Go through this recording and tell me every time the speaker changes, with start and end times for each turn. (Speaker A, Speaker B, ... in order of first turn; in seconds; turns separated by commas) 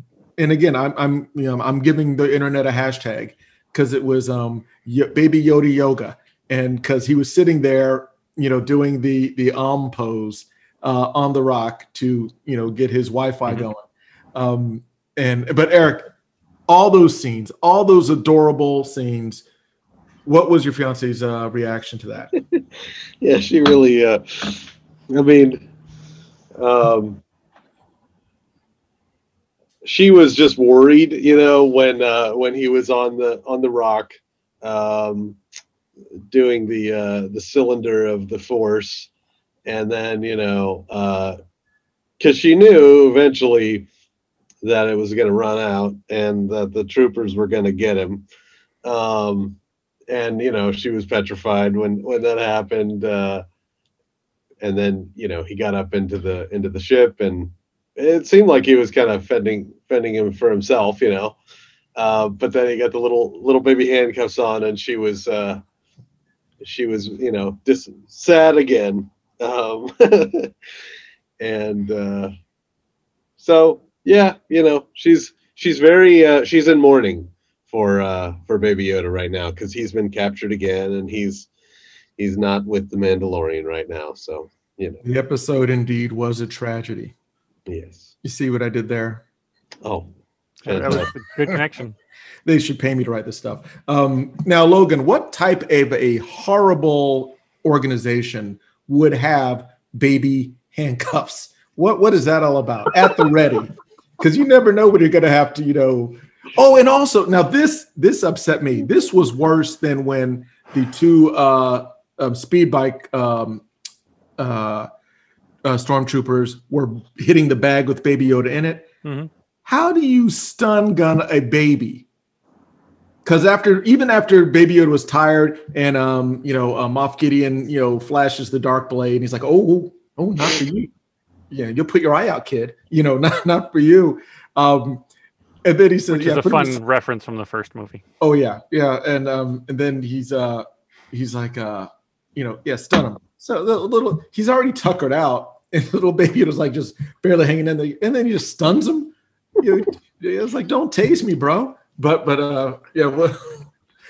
Speaker A: 0.4-16.1, Speaker A: 16.7-19.4, Speaker A: 20.3-22.3, Speaker B: 23.2-25.6, Speaker B: 26.6-27.2, Speaker B: 29.8-35.4, Speaker B: 36.3-39.1, Speaker B: 39.7-41.4, Speaker B: 42.2-43.9, Speaker B: 44.6-48.2, Speaker B: 48.9-49.6, Speaker B: 50.1-53.5, Speaker B: 54.6-61.4, Speaker B: 62.0-65.6, Speaker B: 66.6-70.5, Speaker B: 71.4-72.3, Speaker B: 73.4-81.5, Speaker B: 82.2-85.0, Speaker A: 85.0-87.1, Speaker B: 87.7-88.1, Speaker A: 88.2-89.2, Speaker B: 89.8-90.1, Speaker C: 90.6-92.0, Speaker B: 90.7-91.1, Speaker A: 90.9-91.6, Speaker A: 92.5-113.6, Speaker A: 114.4-114.9, Speaker A: 115.6-118.9, Speaker C: 119.0-119.3, Speaker A: 119.7-122.1, Speaker A: 123.2-130.9, Speaker A: 131.5-135.1, Speaker A: 135.7-136.8, Speaker C: 136.1-138.0, Speaker A: 138.2-153.7